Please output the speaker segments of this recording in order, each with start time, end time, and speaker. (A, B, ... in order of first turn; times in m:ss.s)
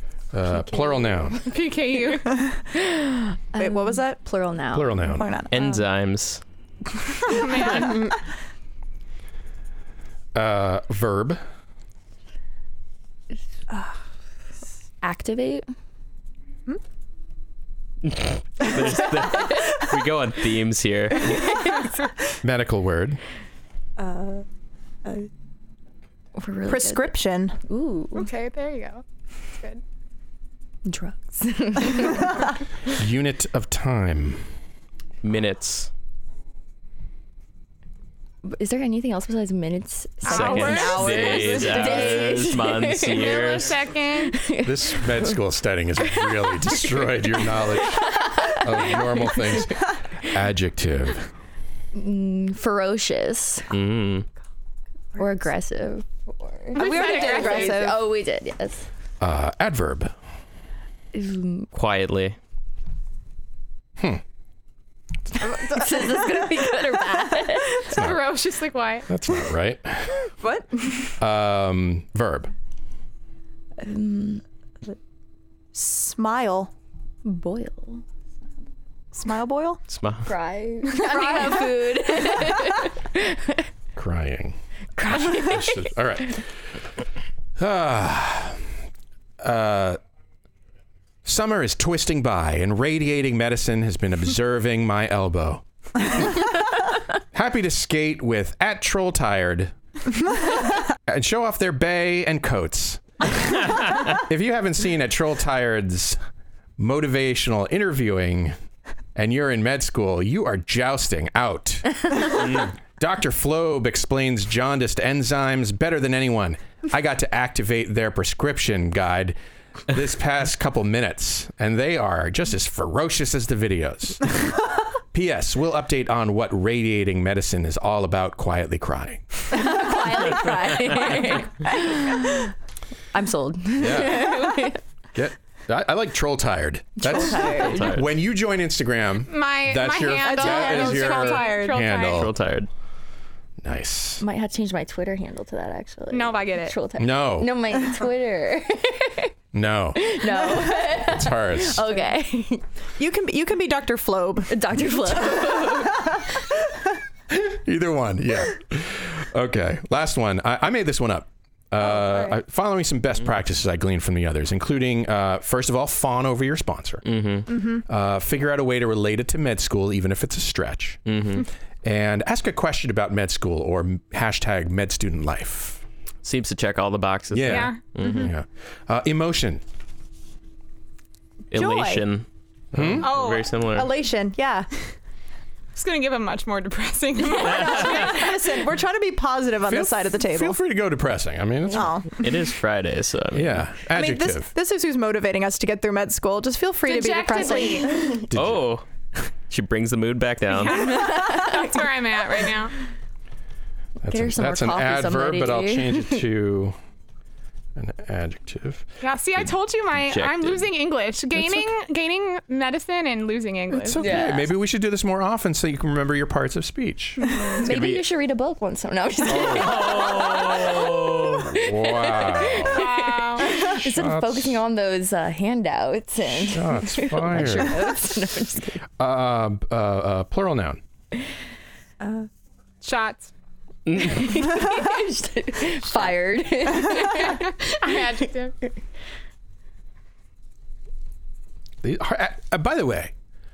0:00.3-0:01.4 A
0:00.5-0:01.3 B
0:01.4-0:02.5 C
0:02.7-0:05.3 B
0:03.6-0:04.2 D
0:04.7-0:05.2 A
0:05.1-0:05.9 D
0:05.5-0:06.4 E
0:07.2-0:08.1 D
0:07.3-0:08.1 C
0:10.3-0:11.4 A
0:15.0-0:15.6 B
0:18.0-0:21.5 E
0:22.4-0:23.2 A
0:24.0-0:24.4 D
0:26.3-0:28.3 B
0:26.7-0:27.6 D
0:28.1-0:29.0 C
0:29.5-0:29.8 C
0:30.8-0:32.5 B
0:32.9-0:34.4 A
0:35.2-0:35.9 E
0:38.4-0:43.5 B
0:40.2-0:42.6 D
0:40.2-0:43.8 E
0:43.1-0:44.4 C
0:44.1-0:45.4 B
0:44.6-0:51.3 A
0:46.0-0:49.6 B
0:51.9-0:53.7 B
0:53.7-0:54.2 E
0:55.2-0:58.9 B
0:56.7-0:57.9 C
0:56.8-0:58.1 D
0:59.2-1:00.1 A
1:01.1-1:01.7 B
1:01.7-1:02.4 E
1:05.4-1:07.9 B
1:05.5-1:06.2 D
1:07.8-1:09.1 C
1:07.9-1:08.4 A
1:09.1-1:10.2 A
1:10.4-1:11.1 D
1:11.2-1:12.5 A
1:13.8-1:14.4 B
1:15.7-1:16.7 D
1:17.2-1:18.0 B
1:19.1-1:19.8 D
1:19.9-1:20.3 E
1:20.2-1:23.7 B
1:20.8-1:22.5 D
1:24.0-1:24.6 A
1:25.0-1:25.9 B
1:25.1-1:26.5 A
1:27.6-1:28.6 A
1:29.4-1:30.0 A
1:31.2-1:35.6 A
1:37.3-1:39.7 A
1:41.1-1:43.0 A
1:43.9-1:46.2 A
1:46.8-1:48.5 A
1:49.1-1:59.4 A
1:52.4-1:52.7 E
1:59.9-2:04.3 A
2:05.1-2:09.2 A
2:09.5-2:12.5 B
2:13.1-2:14.8 B
2:13.8-2:14.6 A
2:15.1-2:22.4 A
2:17.0-2:18.0 B
2:17.5-2:18.1 E
2:19.3-2:22.3 C
2:20.1-2:21.8 D
2:22.1-2:22.7 E
2:23.6-2:24.2 A
2:24.2-2:29.3 B
2:26.1-2:26.8 C
2:27.0-2:27.6 A
2:29.5-2:30.2 A
2:29.9-2:32.6 B
2:30.8-2:31.8 A
2:33.0-2:36.3 D
2:34.5-2:36.4 B
2:37.3-2:47.2 A
2:41.8-2:42.4 D
2:47.0-2:47.5 E
2:47.5-2:47.8 D
2:47.9-2:51.0 A
2:51.0-2:51.5 E
2:51.8-2:55.8 A
2:56.2-2:58.3 E
2:57.3-2:59.6 A
2:57.4-2:58.3 C
3:01.5-3:03.9 E
3:01.5-3:02.0 D
3:02.7-3:03.1 A
3:03.0-3:03.6 C
3:03.7-3:04.7 D
3:05.7-3:08.4 C
3:07.3-3:08.2 E
3:07.5-3:10.6 D
3:09.7-3:12.0 A
3:11.7-3:12.2 D
3:12.2-3:13.6 E
3:13.3-3:14.5 A
3:13.9-3:18.2 D
3:16.8-3:18.2 C
3:18.3-3:18.6 A
3:18.3-3:18.8 E
3:19.5-3:21.1 E
3:20.5-3:22.7 C
3:21.0-3:21.6 B
3:24.0-3:26.8 A
3:24.0-3:26.3 B
3:27.8-3:28.8 A
3:29.0-3:34.2 C
3:29.9-3:30.7 E
3:33.7-3:37.2 A
3:34.0-3:34.5 B
3:37.5-3:48.8 B
3:37.6-3:38.0 E
3:39.3-3:39.8 A
3:39.5-3:41.4 E
3:41.4-3:42.8 A
3:42.7-3:43.5 C
3:43.7-3:44.6 A
3:46.4-3:48.0 A
3:49.0-3:50.8 A
3:52.0-3:52.3 D
3:52.8-3:53.3 C
3:53.9-3:54.4 E
3:54.0-3:57.6 B
3:57.0-3:58.5 C
4:01.8-4:03.1 A